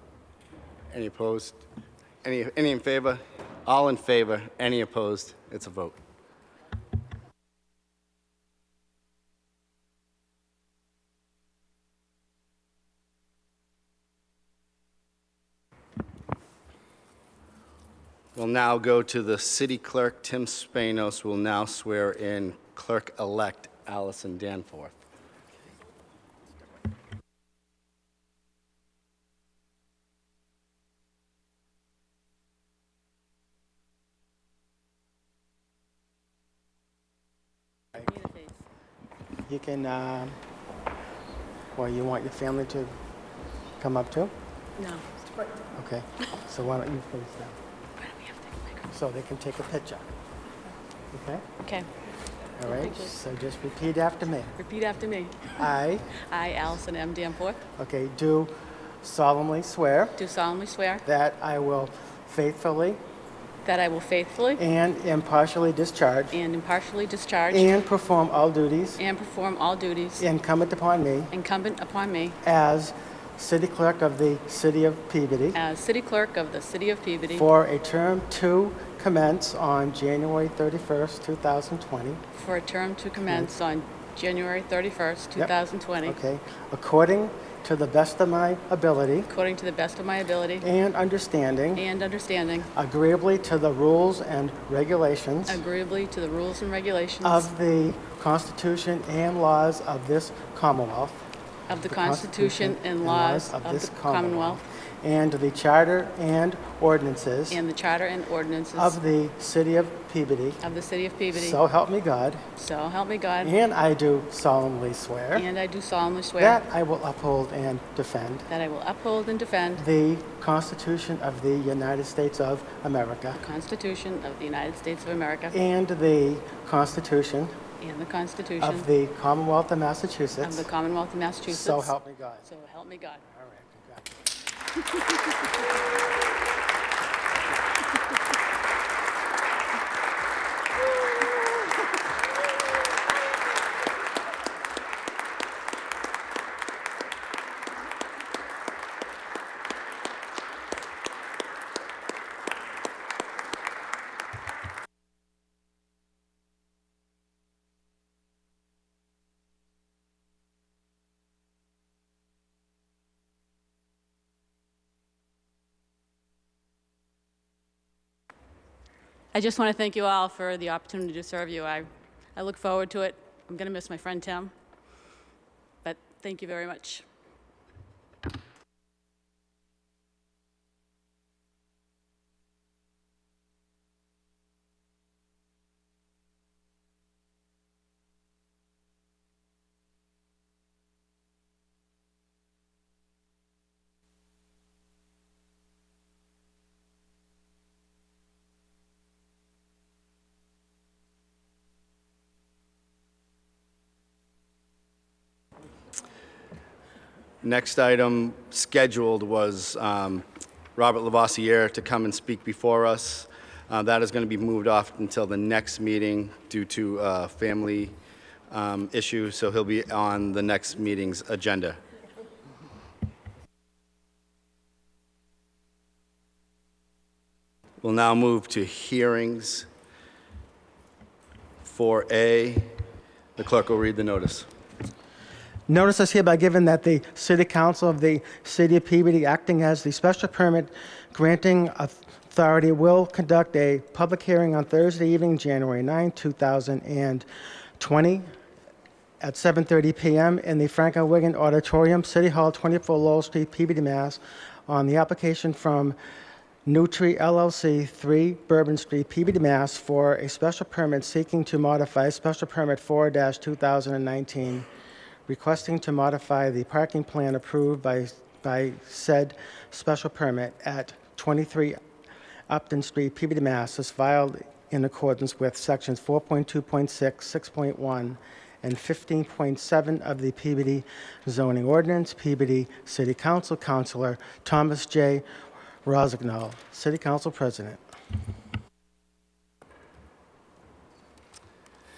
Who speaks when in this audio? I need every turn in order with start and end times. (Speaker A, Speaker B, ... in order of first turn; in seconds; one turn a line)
Speaker A: 0.9-1.6
Speaker A: 2.2-6.0
Speaker A: 18.3-24.9
Speaker B: 38.0-38.5
Speaker C: 39.5-40.4
Speaker C: 41.7-42.9
Speaker C: 43.8-44.3
Speaker B: 44.8-45.0
Speaker C: 45.7-47.5
Speaker B: 48.0-48.8
Speaker C: 48.9-50.1
Speaker C: 51.1-51.4
Speaker C: 52.6-54.5
Speaker B: 52.6-53.1
Speaker B: 54.6-55.6
Speaker C: 55.5-56.1
Speaker B: 56.2-57.6
Speaker C: 57.8-60.2
Speaker B: 60.2-61.0
Speaker C: 61.0-63.0
Speaker B: 63.6-64.6
Speaker C: 64.6-66.4
Speaker B: 66.3-67.8
Speaker C: 67.5-69.0
Speaker B: 69.0-70.2
Speaker C: 70.2-71.3
Speaker B: 71.3-72.4
Speaker C: 72.4-75.6
Speaker B: 75.5-77.5
Speaker C: 77.3-82.2
Speaker B: 82.3-86.2
Speaker C: 83.2-83.5
Speaker C: 86.0-89.3
Speaker B: 89.3-90.7
Speaker C: 90.6-91.8
Speaker B: 91.8-92.7
Speaker C: 92.7-95.6
Speaker B: 95.5-97.5
Speaker C: 97.2-101.2
Speaker B: 101.7-104.6
Speaker C: 101.9-107.6
Speaker B: 107.5-109.0
Speaker C: 108.7-110.6
Speaker B: 110.6-111.6
Speaker C: 111.3-112.4
Speaker B: 112.5-113.5
Speaker C: 113.4-115.5
Speaker B: 115.3-116.6
Speaker C: 116.4-118.5
Speaker B: 118.5-119.8
Speaker C: 119.8-123.4
Speaker B: 123.3-125.6
Speaker C: 125.5-127.5
Speaker B: 127.8-128.9
Speaker C: 128.6-130.7
Speaker B: 130.4-133.2
Speaker C: 131.5-132.5
Speaker C: 133.2-134.2
Speaker B: 169.3-174.5
Speaker B: 175.8-177.1
Speaker A: 207.4-217.9
Speaker A: 218.5-221.8
Speaker A: 227.8-229.7
Speaker A: 231.6-232.8
Speaker A: 233.3-234.5
Speaker C: 235.7-247.2
Speaker C: 247.8-248.2
Speaker C: 249.2-255.9
Speaker C: 256.6-264.6
Speaker C: 265.3-271.8
Speaker C: 272.5-285.2
Speaker C: 285.8-287.8